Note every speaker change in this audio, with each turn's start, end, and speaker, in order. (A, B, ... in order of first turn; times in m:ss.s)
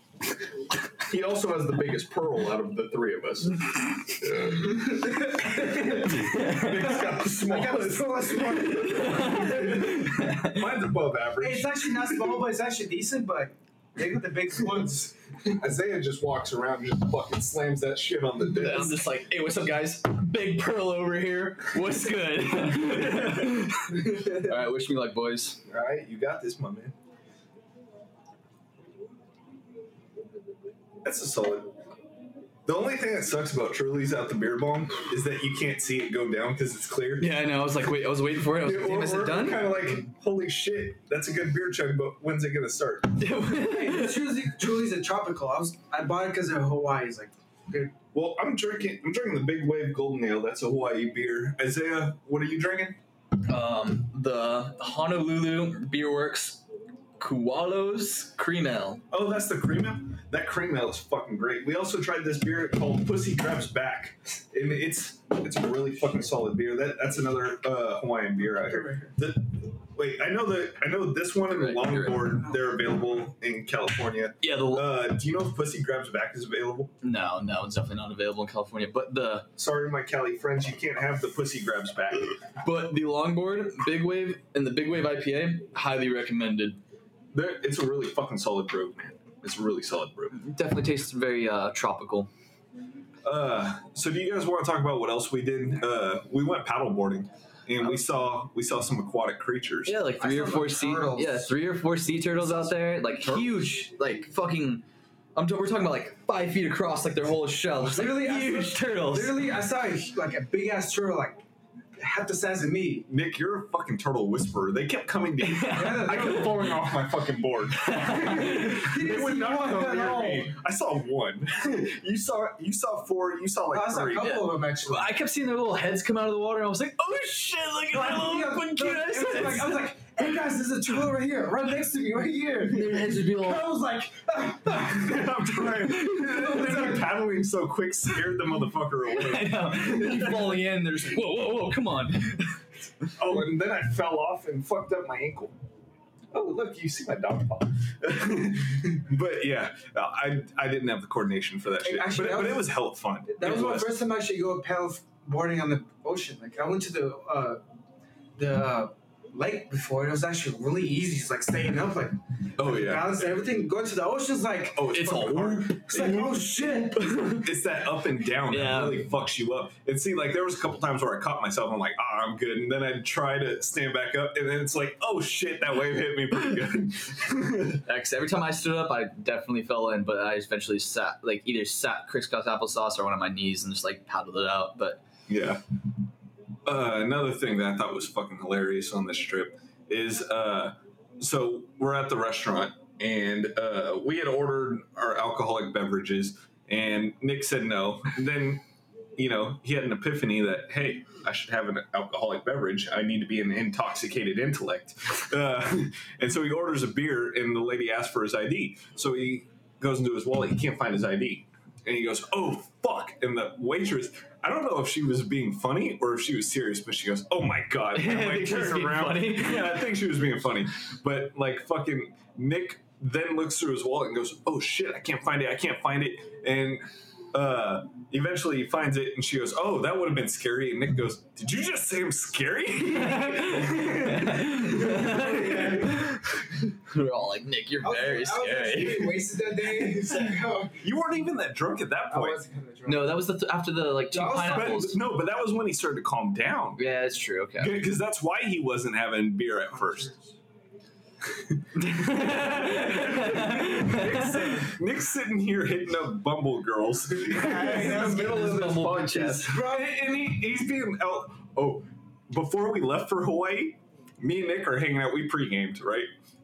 0:01.0-0:04.8 A
0:04.5-0:06.1 B
0:05.4-0:08.4 A
0:06.0-0:06.8 C
0:07.0-0:10.0 B
0:08.4-0:10.6 C
0:09.3-0:12.4 A
0:11.4-0:15.3 B
0:15.5-0:19.0 A
0:18.5-0:25.6 C
0:23.0-0:23.6 A
0:25.7-0:27.0 A
0:31.0-0:31.8 A
0:32.7-0:37.4 A
0:37.2-0:39.7 C
0:38.6-0:43.3 A
0:43.2-0:44.4 C
0:43.5-0:48.0 B
0:48.1-0:53.0 A
0:53.5-0:56.6 C
0:57.2-0:59.0 C
0:59.1-1:16.9 A
1:08.7-1:09.1 B
1:11.5-1:12.4 C
1:14.4-1:14.9 C
1:17.0-1:19.5 C
1:19.6-1:22.3 A
1:22.6-1:26.8 C
1:27.3-1:30.4 A
1:30.3-1:32.3 C
1:33.2-1:40.0 A
1:39.9-1:49.4 C
1:40.2-1:41.6 B
1:42.4-1:43.0 B
1:47.8-1:51.4 B
1:52.0-1:53.1 B
1:53.1-2:04.3 A
1:55.4-1:56.6 C
1:55.7-1:56.6 B
1:57.8-1:58.9 C
1:58.3-2:00.6 B
2:03.7-2:05.1 B
2:04.2-2:10.3 C
2:07.9-2:17.1 B
2:12.7-2:13.7 C
2:14.8-2:20.6 A
2:15.8-2:16.8 C
2:19.1-2:22.6 C
2:23.2-2:25.6 A
2:26.3-2:34.0 A
2:31.8-2:32.7 B
2:33.3-2:37.6 B
2:38.4-2:47.2 B
2:42.6-2:43.3 A
2:44.7-2:45.8 A
2:44.9-2:47.4 C
2:47.4-2:57.8 A
2:48.5-2:49.1 C
2:57.8-3:05.0 C
3:05.3-3:05.6 A
3:06.7-3:18.6 A
3:19.2-3:55.9 A
3:37.9-3:39.9 C
3:52.9-3:59.2 C
3:54.6-3:56.2 B
3:57.8-4:00.8 B
4:00.8-4:02.4 A
4:02.1-4:03.2 B
4:02.9-4:05.0 C
4:04.1-4:04.9 B
4:04.5-4:06.8 A
4:06.8-4:07.8 C
4:07.6-4:10.1 A
4:09.8-4:10.3 B
4:11.8-4:14.6 C
4:12.0-4:26.1 A
4:17.2-4:18.5 B
4:17.3-4:19.6 C
4:19.4-4:20.0 B